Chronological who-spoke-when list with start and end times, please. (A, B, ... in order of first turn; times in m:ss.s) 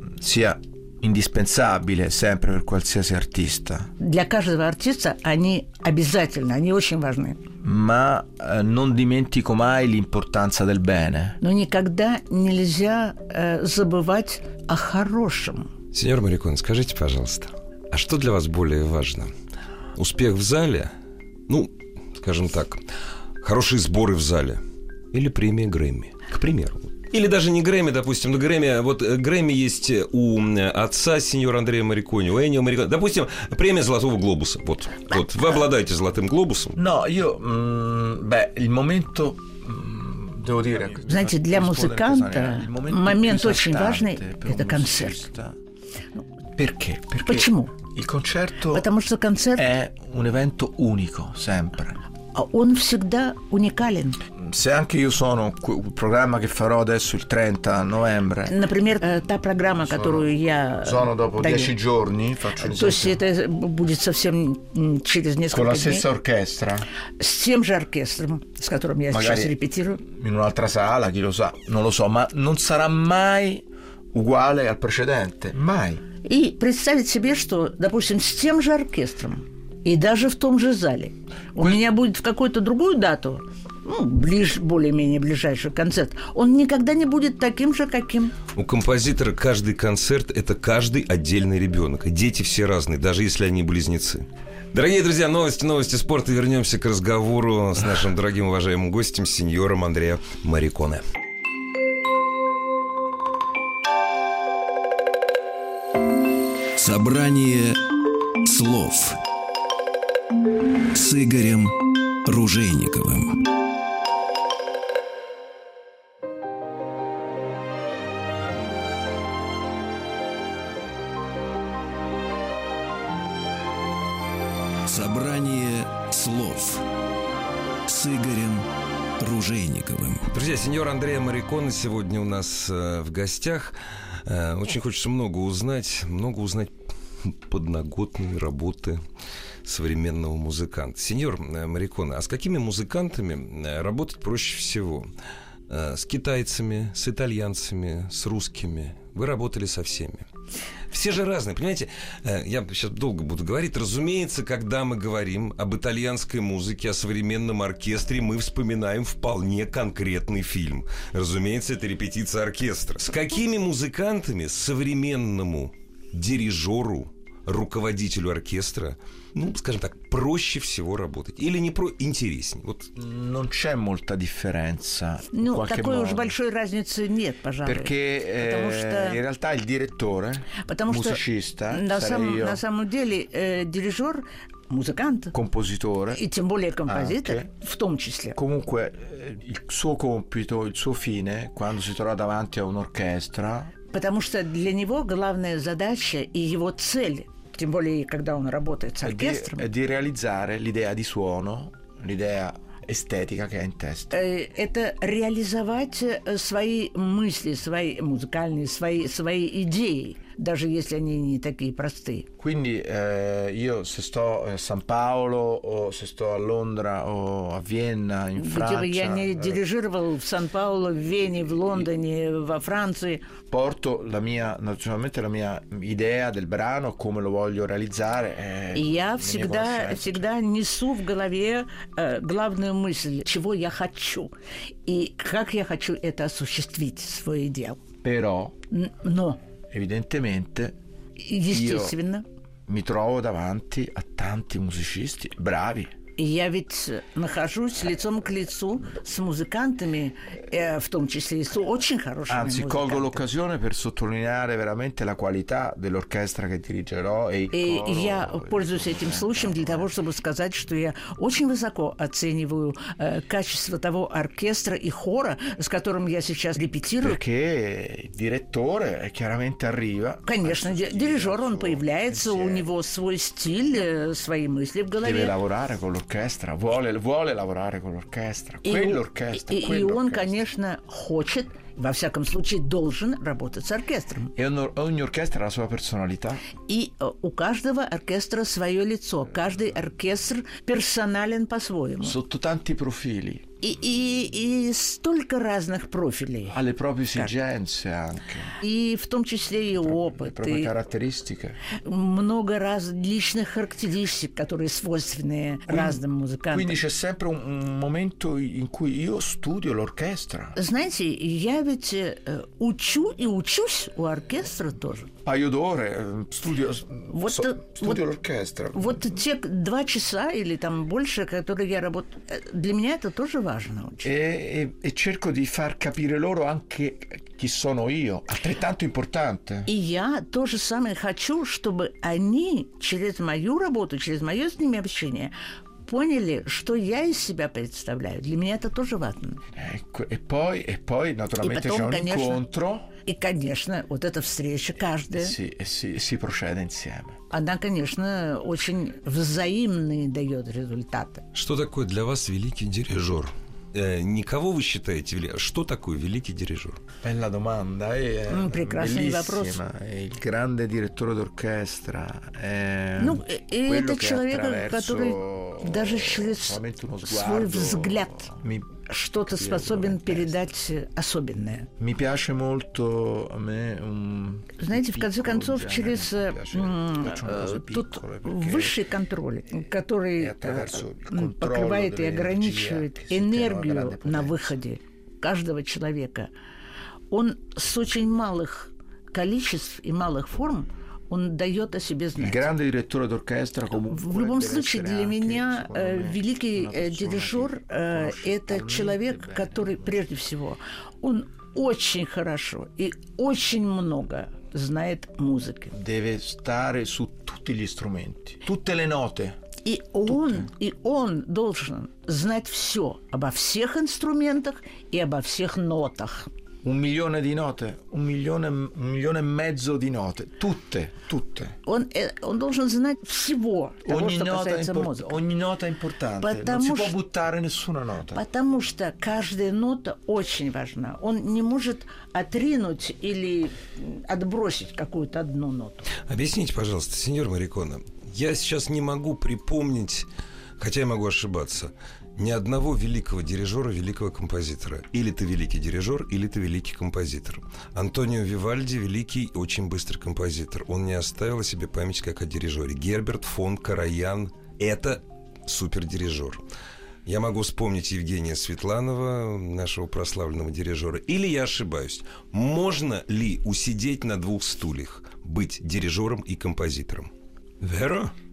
0:00.2-0:03.9 A
0:04.0-0:07.4 B
0:07.6-0:11.4 A
0:11.4-0:15.7 B
0:15.9-0:19.3 C
0:20.0-0:20.9 C
0:21.5-0:22.8 C
0:23.4-0:24.6 C
0:25.1-0:36.8 C
0:36.8-0:45.6 A
0:41.1-0:45.3 B
0:46.6-0:48.9 A
0:47.2-0:47.8 B
0:48.7-0:49.7 B
0:49.6-0:52.0 A
0:52.3-0:54.2 B
0:54.4-0:58.6 A
0:58.5-1:01.7 B
0:59.8-1:03.2 A
1:02.6-1:06.0 B
1:05.5-1:06.9 A
1:07.2-1:10.0 B
1:09.1-1:16.0 A
1:16.2-1:28.4 B
1:28.5-1:41.0 C
1:46.8-1:47.9 D
1:48.4-1:49.2 D
1:50.9-1:53.4 D
2:04.9-2:06.9 D
2:07.9-2:08.7 D
2:09.2-2:10.2 D
2:10.3-2:16.7 C
2:17.2-2:19.0 C
2:19.6-2:25.1 C
2:25.7-2:30.2 C
2:30.9-2:52.9 C
2:53.0-2:56.3 A
2:55.3-2:59.2 B
2:57.6-3:02.6 A
3:00.6-3:05.4 B
3:05.3-3:06.2 A
3:06.1-3:08.4 B
3:06.9-3:07.5 A
3:08.4-3:13.7 A
3:13.9-3:19.7 B
3:19.0-3:24.2 A
3:24.1-3:32.3 B
3:32.4-3:39.6 A
3:38.4-3:43.2 B
3:41.6-3:41.8 A
3:43.5-3:50.3 A
3:48.7-3:54.3 B
3:54.9-3:57.8 B
3:58.0-3:58.6 A
3:58.7-3:59.4 B
3:59.7-4:00.8 A
4:01.2-4:02.2 B
4:01.5-4:02.0 A
4:02.7-4:05.9 A
4:06.2-4:13.2 B
4:12.3-4:19.9 A
4:17.5-4:27.2 B
4:27.0-4:32.7 A
4:30.3-4:35.4 B
4:35.0-4:40.4 A
4:38.6-4:44.3 B
4:44.4-4:46.4 A
4:46.6-4:52.2 B
4:52.0-4:53.5 A
4:53.6-4:56.6 B
4:56.5-4:58.6 A
4:58.6-5:00.7 B
4:59.8-5:01.6 A
5:01.8-5:06.8 B
5:05.7-5:10.6 A
5:10.6-5:15.1 B
5:15.2-5:19.1 A
5:17.1-5:18.0 B
5:18.7-5:24.1 B
5:24.0-5:29.7 A
5:29.7-5:35.3 B
5:35.8-5:39.4 B
5:39.6-5:42.9 A
5:41.4-5:42.4 B
5:43.0-5:45.4 B
5:45.1-5:47.2 A
5:47.3-5:51.2 B
5:51.3-5:56.8 C
5:57.0-6:10.4 A
5:58.3-5:59.6 B
6:03.0-6:08.3 B
6:08.9-6:11.7 B
6:11.8-6:18.8 A
6:14.6-6:26.3 B
6:20.2-6:24.5 A
6:27.1-6:32.5 B
6:32.2-6:40.0 A
6:33.9-6:45.8 B
6:45.7-6:49.4 A
6:49.6-6:56.3 B
6:50.1-6:50.4 A
6:56.6-7:01.6 A
7:01.7-7:05.2 B
7:03.8-7:08.2 A
7:06.2-7:07.0 B
7:08.1-7:15.9 B
7:16.1-7:36.4 C
7:37.0-7:47.1 C
7:47.6-7:48.1 C